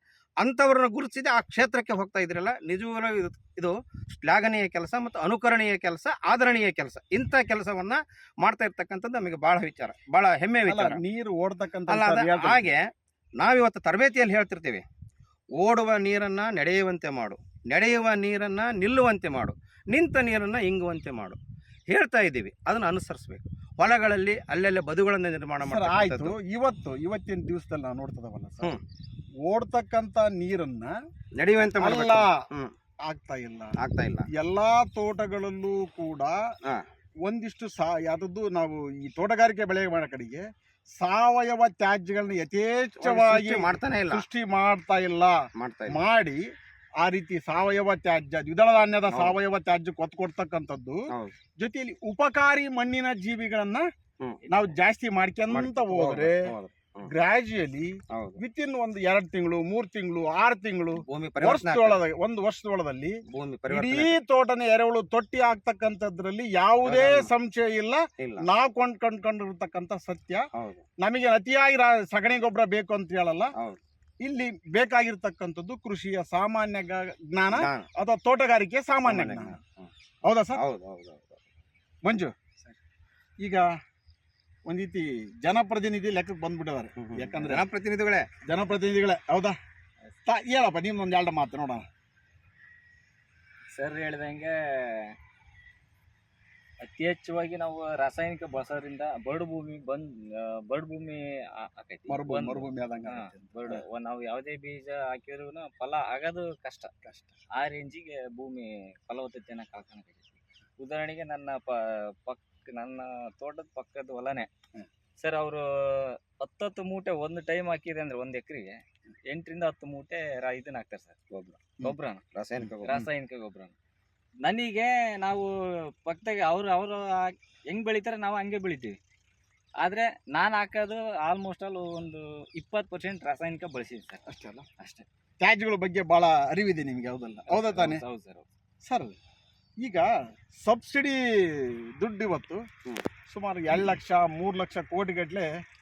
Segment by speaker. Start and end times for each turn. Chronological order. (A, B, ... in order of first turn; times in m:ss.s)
0:00.4-0:11.0 A
0:10.7-0:12.7 B
0:11.9-0:12.8 A
0:13.4-0:14.8 A
0:15.6-0:26.4 A
0:25.6-0:28.8 B
0:29.5-0:30.9 B
0:31.4-0:32.7 A
0:31.8-0:32.5 B
0:33.1-0:33.8 B
0:33.8-0:34.3 A
0:34.3-0:36.4 B
0:37.2-0:40.4 B
0:41.0-0:46.4 B
0:43.0-0:44.2 A
0:45.6-0:46.0 A
0:47.0-0:51.0 B
0:49.1-0:49.4 A
0:51.6-0:53.8 B
0:54.2-0:54.5 A
0:54.5-0:56.5 B
0:55.5-0:57.1 A
0:57.0-1:10.5 B
0:58.1-0:58.4 A
1:01.0-1:02.0 A
1:03.3-1:04.2 A
1:06.8-1:07.3 A
1:08.2-1:08.5 A
1:10.5-1:10.8 A
1:11.0-1:13.5 B
1:14.2-1:19.6 B
1:17.5-1:17.9 A
1:19.0-1:19.9 A
1:20.2-1:20.6 B
1:20.5-1:21.4 A
1:22.0-1:22.3 B
1:23.4-1:23.7 B
1:24.7-1:27.7 B
1:27.0-1:28.3 A
1:28.5-1:29.6 B
1:30.3-1:31.8 B
1:33.7-1:35.2 C
1:36.8-1:46.9 C
1:42.1-1:43.8 B
1:47.0-1:47.4 B
1:47.5-1:54.5 C
1:55.2-2:01.2 C
2:01.3-2:03.1 A
2:01.8-2:02.2 C
2:02.8-2:03.7 C
2:04.4-2:09.0 C
2:09.8-2:14.2 C
2:14.3-2:14.7 B
2:14.8-2:15.0 C
2:15.4-2:18.0 B
2:17.5-2:18.5 C
2:18.8-2:19.2 B
2:19.8-2:20.1 B
2:20.6-2:22.6 B
2:23.3-2:25.5 B